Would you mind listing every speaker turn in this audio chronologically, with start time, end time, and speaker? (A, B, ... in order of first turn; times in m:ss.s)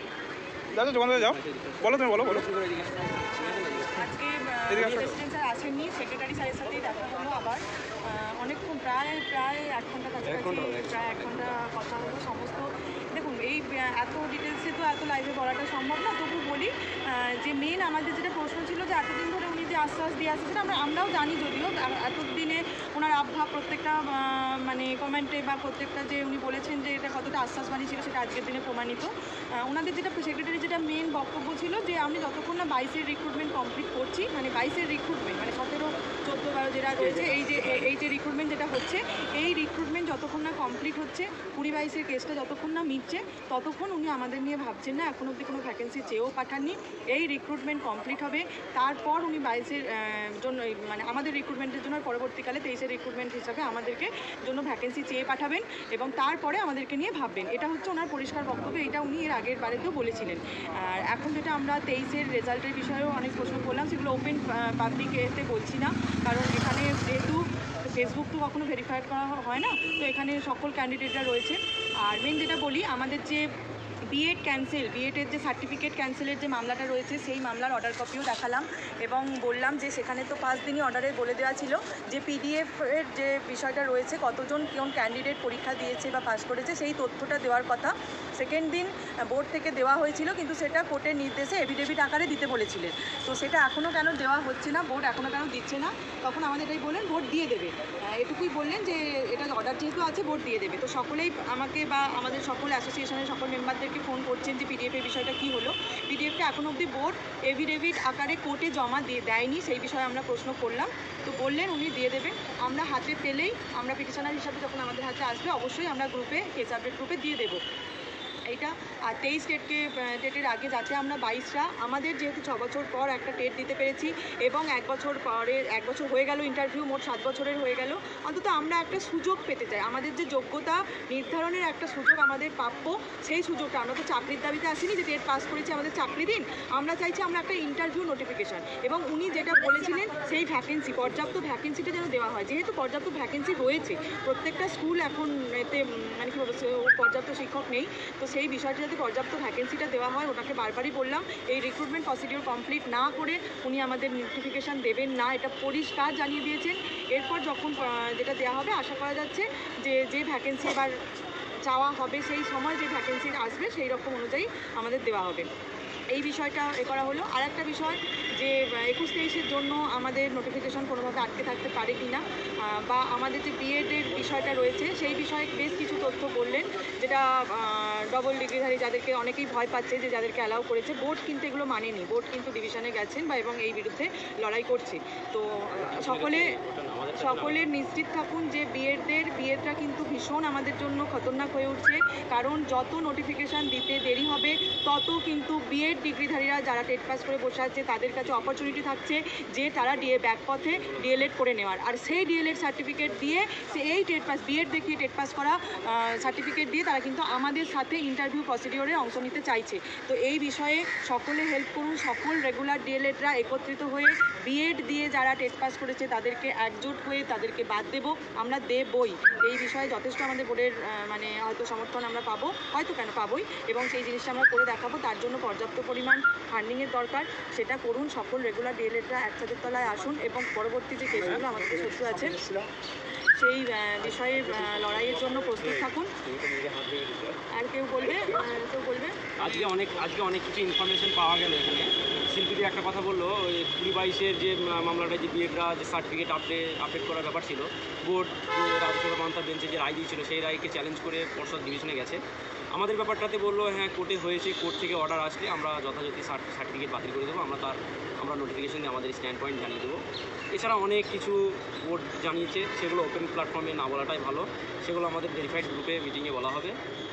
0:00.7-0:02.4 A
0:01.2-0:04.0 B
0:03.0-1:13.5 C
0:04.7-0:05.1 A
0:10.2-0:11.4 B
0:37.0-0:37.5 B
1:14.1-1:57.6 C
1:58.5-2:41.0 C
2:41.6-2:45.5 C
2:46.1-3:06.5 C
3:05.8-3:07.7 B
3:07.1-3:52.4 C
3:53.4-3:56.1 C
3:55.6-3:57.4 B
3:57.5-3:59.2 C
3:59.4-4:12.2 B
3:59.4-3:59.7 A
4:12.7-4:20.0 B
4:20.5-4:26.8 B